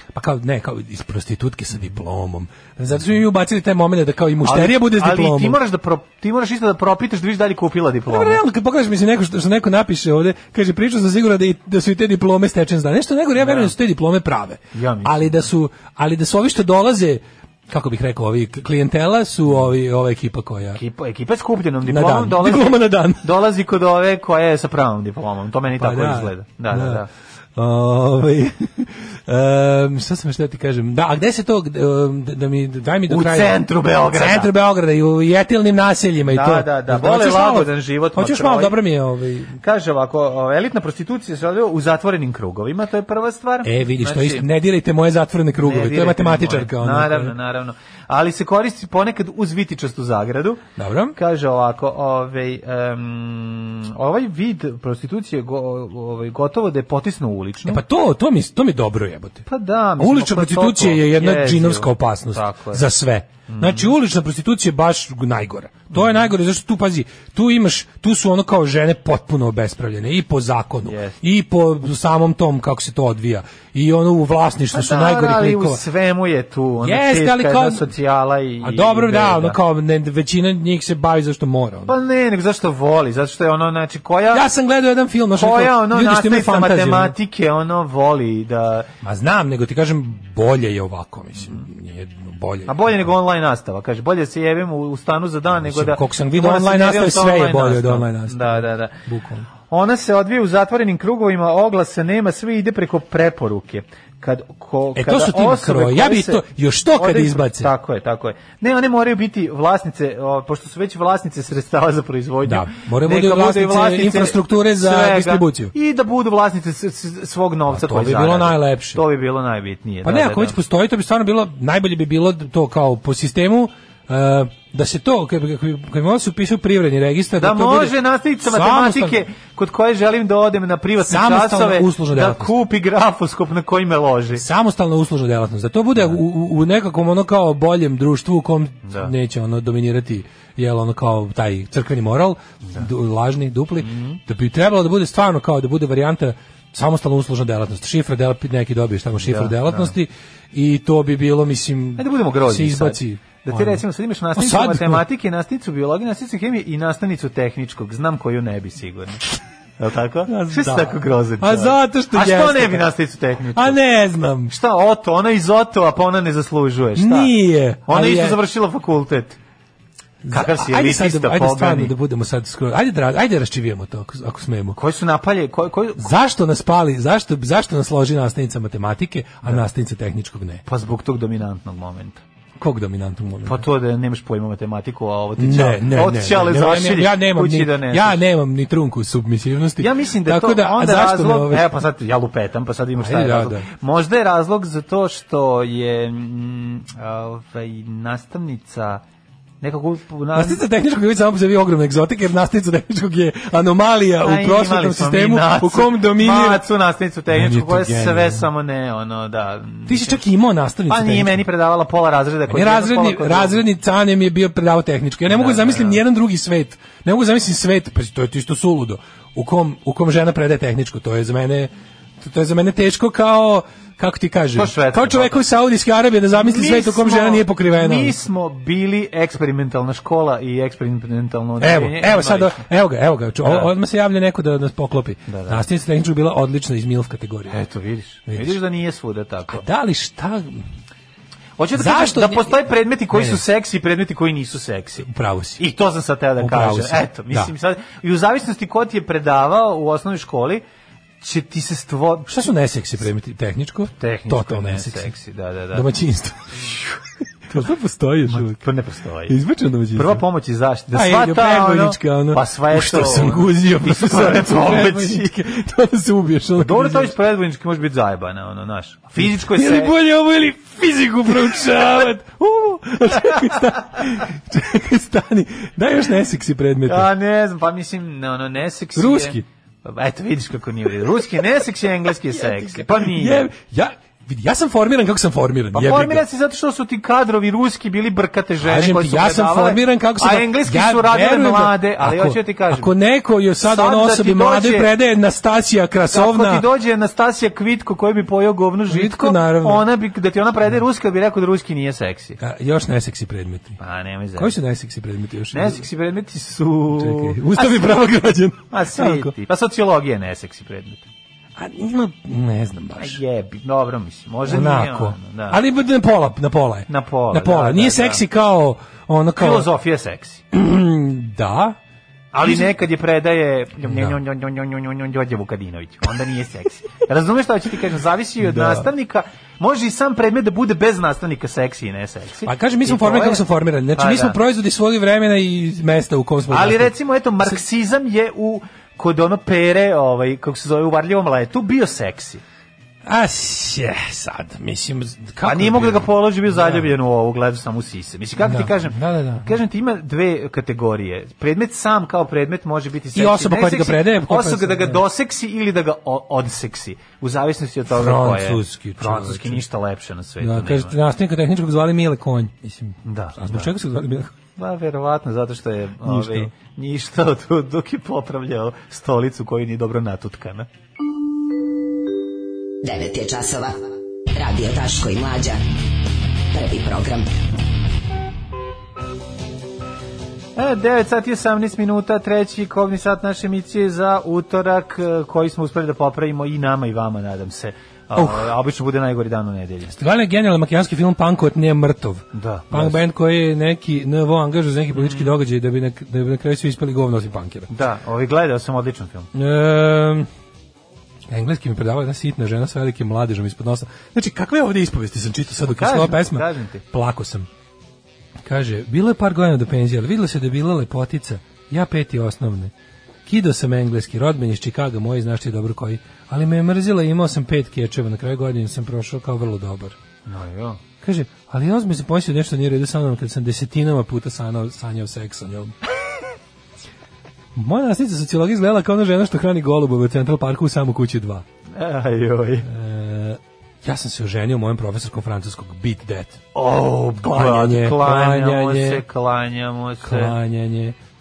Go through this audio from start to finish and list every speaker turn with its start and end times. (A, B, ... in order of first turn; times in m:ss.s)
0:00.1-0:05.6 A
0:04.4-0:08.4 B
0:08.1-0:20.8 A
0:13.4-0:13.7 B
0:14.7-0:15.4 B
0:20.7-0:27.1 B
0:21.8-0:23.3 A
0:25.8-0:39.6 A
0:33.1-0:34.5 B
0:36.2-0:38.8 B
0:39.6-0:44.5 B
0:43.6-0:47.3 A
0:45.6-0:50.6 B
0:50.8-0:51.2 A
0:51.1-0:57.8 B
0:57.6-0:59.5 A
0:59.5-1:02.8 B
1:00.0-1:15.8 A
1:03.5-1:03.9 B
1:10.8-1:11.2 B
1:14.7-1:19.6 B
1:16.8-1:17.9 A
1:18.6-1:21.9 A
1:21.8-1:24.4 B
1:24.3-1:27.2 A
1:25.3-1:28.9 B
1:29.0-1:33.1 A
1:32.7-1:39.0 B
1:35.6-1:39.5 A
1:39.7-2:00.6 B
1:44.9-1:47.7 A
1:52.4-1:55.7 A
1:57.7-1:59.0 A
2:00.0-2:09.2 A
2:07.4-2:14.4 B
2:11.0-2:12.5 A
2:14.4-2:33.8 A
2:18.8-2:19.1 B
2:23.8-2:24.2 B
2:29.2-2:29.9 B
2:32.0-2:39.2 B
2:34.3-2:35.0 A
2:39.8-2:43.8 B
2:40.3-2:42.9 A
2:43.5-2:44.5 A
2:44.5-2:49.4 B
2:47.0-2:48.4 A
2:50.2-2:54.8 A
2:50.3-2:51.9 B
2:54.8-2:56.1 B
2:56.0-3:00.6 A
3:00.6-3:02.2 B
3:02.6-3:03.6 A
3:03.4-3:08.2 B
3:05.4-3:11.7 A
3:09.8-3:19.0 B
3:13.0-3:13.7 A
3:19.6-3:20.6 B
3:20.3-3:26.6 A
3:24.2-3:30.2 B
3:27.3-3:28.5 A
3:29.9-3:31.4 A
3:30.9-3:33.6 B
3:32.5-3:48.1 A
3:35.3-3:36.0 B
3:44.5-3:45.4 B
3:46.3-3:52.6 B
3:51.6-3:57.6 A
3:53.4-3:53.7 B
3:55.3-3:55.6 B
3:57.5-3:59.6 B
3:58.3-3:58.6 A
3:59.5-4:00.6 A
4:01.6-4:10.6 B
4:01.7-4:02.6 A
4:03.1-4:03.4 A
4:05.0-4:05.6 A
4:06.4-4:07.5 A
4:11.2-4:12.5 B
4:12.3-4:15.1 A
4:14.0-4:15.9 B
4:15.7-4:16.8 A
4:17.5-4:18.6 A
4:18.3-4:19.4 B
4:19.3-4:20.2 A
4:19.9-4:25.4 B
4:20.9-4:27.1 A
4:26.6-4:30.0 B
4:29.2-4:37.1 A
4:36.8-4:43.5 B
4:39.0-4:39.4 A
4:42.3-4:46.2 A
4:45.7-4:52.9 B
4:48.6-4:56.6 A
4:53.6-4:54.9 B
4:56.1-5:02.4 B
4:58.9-4:59.9 A
5:02.4-5:03.8 A
5:03.8-5:04.6 B
5:04.4-5:05.8 A
5:05.5-5:08.0 B
5:06.9-5:09.3 A
5:08.7-5:11.0 B
5:11.6-5:13.2 A
5:13.0-5:15.6 B
5:14.4-5:19.7 A
5:16.9-5:18.2 B
5:19.4-5:20.4 B
5:20.5-5:21.8 A
5:22.3-5:34.4 B
5:22.4-5:22.7 A
5:23.8-5:24.2 A
5:28.4-5:28.9 A
5:32.4-5:36.9 A
5:36.5-5:42.4 B
5:43.0-5:46.9 A
5:45.4-6:01.0 B
5:48.4-5:49.6 A
5:53.1-5:55.0 A
5:57.9-5:59.6 A
6:00.4-6:04.3 A
6:03.0-6:03.7 B
6:04.6-6:10.7 B
6:06.0-6:06.5 A
6:12.8-6:13.8 C
6:14.3-6:15.6 C
6:16.5-6:17.3 C
6:20.6-6:29.9 B
6:28.1-6:28.5 A
6:29.9-6:37.7 A
6:32.3-6:33.0 B
6:34.9-6:35.3 B
6:37.7-6:39.3 B
6:39.3-6:40.3 A
6:41.3-6:47.5 A
6:45.6-6:46.8 B
6:48.4-6:52.7 A
6:53.2-7:00.0 A
7:00.2-7:00.8 B
7:01.0-7:05.7 A
7:07.5-7:11.4 A
7:11.7-7:12.7 B
7:12.6-7:16.4 A
7:16.5-7:20.4 B
7:17.3-7:19.0 A
7:20.0-7:21.0 A